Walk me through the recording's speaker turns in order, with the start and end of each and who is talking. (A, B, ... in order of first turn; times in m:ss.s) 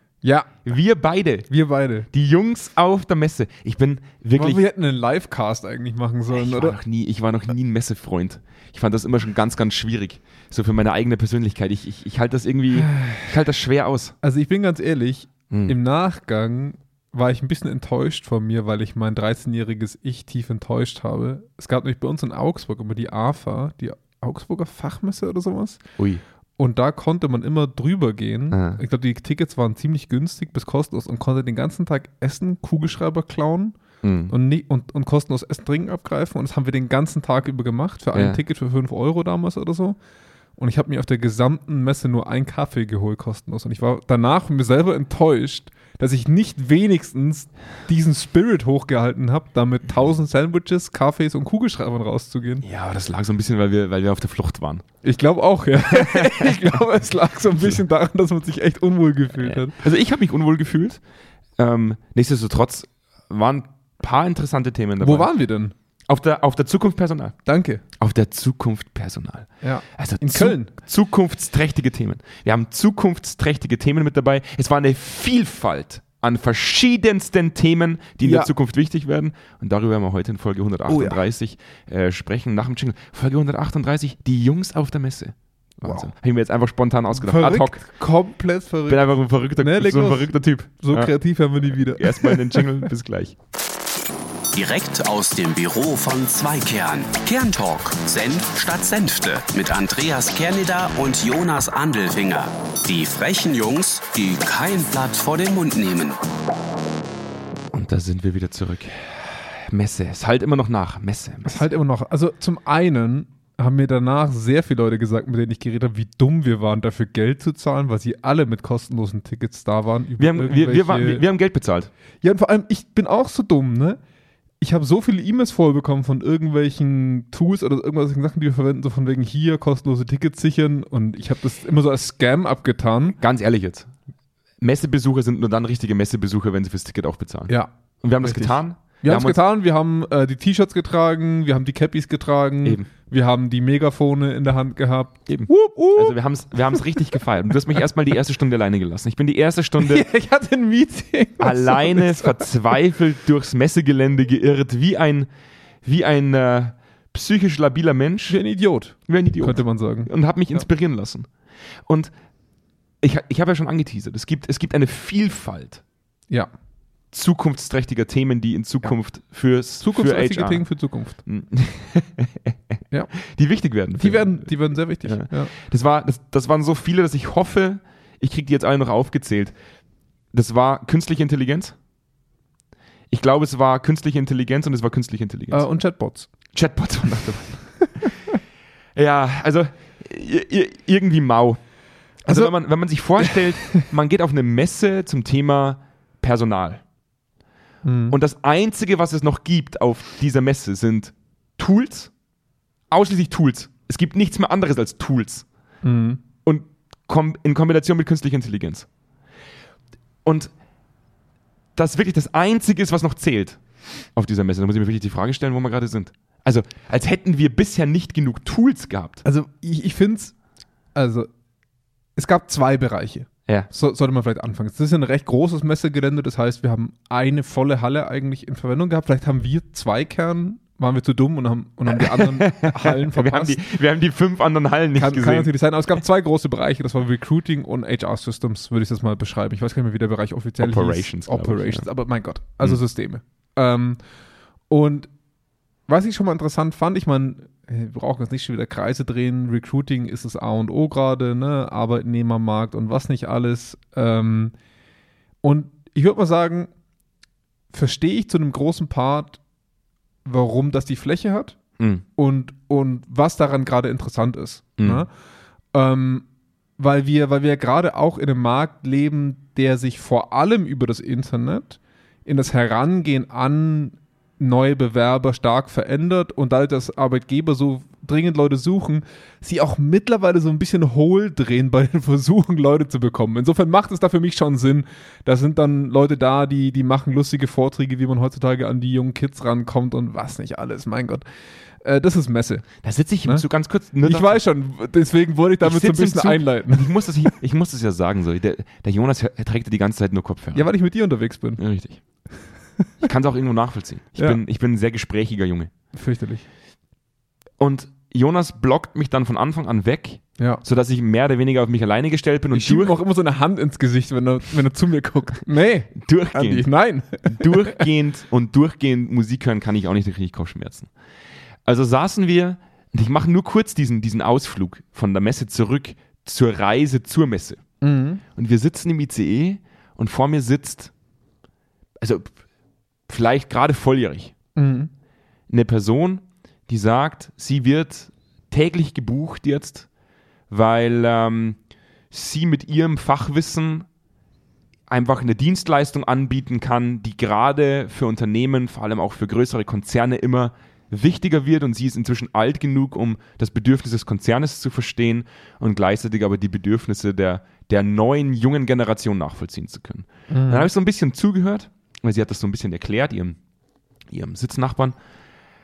0:00.2-0:00.5 A
0:00.6-0:01.5 B
0:01.5-0:02.1 A
0:02.1-0:04.6 B
0:04.4-0:06.8 A
0:06.3-0:14.2 B
0:12.7-0:13.3 A
0:14.2-0:25.8 A
0:15.5-0:15.8 B
0:26.6-0:33.8 A
0:28.5-0:28.8 B
0:34.0-0:34.3 B
0:34.3-0:40.0 A
0:38.1-0:38.4 B
0:40.6-0:52.6 A
0:52.6-0:54.8 B
0:55.0-0:59.8 A
0:55.9-0:56.8 B
0:59.4-1:01.0 B
1:01.6-1:05.3 B
1:05.0-1:05.7 A
1:06.1-1:07.4 B
1:07.4-1:07.8 A
1:08.0-1:27.8 B
1:09.6-1:10.7 A
1:18.2-1:18.5 A
1:20.9-1:21.2 A
1:27.2-1:29.0 A
1:28.9-1:31.1 B
1:29.6-1:32.8 A
1:31.8-1:33.4 B
1:34.6-1:46.2 C
1:47.7-1:51.6 B
1:51.5-2:01.2 A
2:00.2-2:01.9 B
2:02.2-2:04.0 A
2:04.6-2:13.2 A
2:13.2-2:13.9 B
2:14.6-2:19.4 B
2:18.2-2:27.8 A
2:22.6-2:22.9 B
2:25.3-2:30.1 B
2:29.8-2:32.5 A
2:31.4-2:35.3 B
2:35.8-2:38.4 B
2:38.3-2:40.7 A
2:39.1-2:41.3 B
2:41.9-2:42.1 B
2:43.0-2:45.8 B
2:47.1-2:50.6 B
2:49.8-2:51.2 A
2:51.2-2:54.5 B
2:54.0-2:55.5 A
2:55.0-2:59.6 B
3:00.3-3:01.8 B
3:03.1-3:05.6 B
3:05.5-3:06.3 A
3:06.5-3:08.1 B
3:09.0-3:11.6 B
3:12.2-3:16.8 B
3:12.3-3:12.5 A
3:13.2-3:13.8 A
3:17.8-3:18.2 A
3:18.1-3:22.1 B
3:22.9-3:25.5 B
3:25.8-3:26.2 A
3:26.4-3:28.9 B
3:30.2-3:30.5 B
3:31.8-3:39.2 B
3:39.2-3:40.4 A
3:40.9-3:41.3 A
3:42.2-3:53.6 A
3:52.0-3:55.5 B
3:55.0-4:04.0 A
4:00.6-4:01.9 B
4:04.7-4:05.1 A
4:05.9-4:14.5 A
4:15.4-4:16.7 A
4:17.7-4:19.4 A
4:20.2-4:21.6 A
4:21.8-4:22.0 B
4:22.2-4:25.1 A
4:24.8-4:25.0 B
4:25.7-4:26.3 A
4:26.8-4:51.2 A
4:51.8-4:52.7 A
4:52.8-4:54.4 B
4:54.0-4:57.3 A
4:55.6-5:00.7 B
5:00.5-5:01.6 A
5:01.6-5:02.0 B
5:02.8-5:03.1 A
5:03.0-5:05.7 B
5:04.2-5:04.4 A
5:05.9-5:06.4 A
5:07.6-5:13.0 B
5:12.5-5:17.8 A
5:16.0-5:16.7 B
5:17.2-5:20.9 B
5:21.6-5:27.6 B
5:27.8-5:28.2 A
5:28.4-5:30.9 B
5:32.0-5:32.4 B
5:33.1-5:34.3 B
5:34.6-5:34.9 A
5:35.5-5:39.9 B
5:40.5-5:41.6 B
5:42.1-5:43.9 B
5:44.9-6:03.4 B
6:00.3-6:00.7 A
6:04.1-6:05.0 B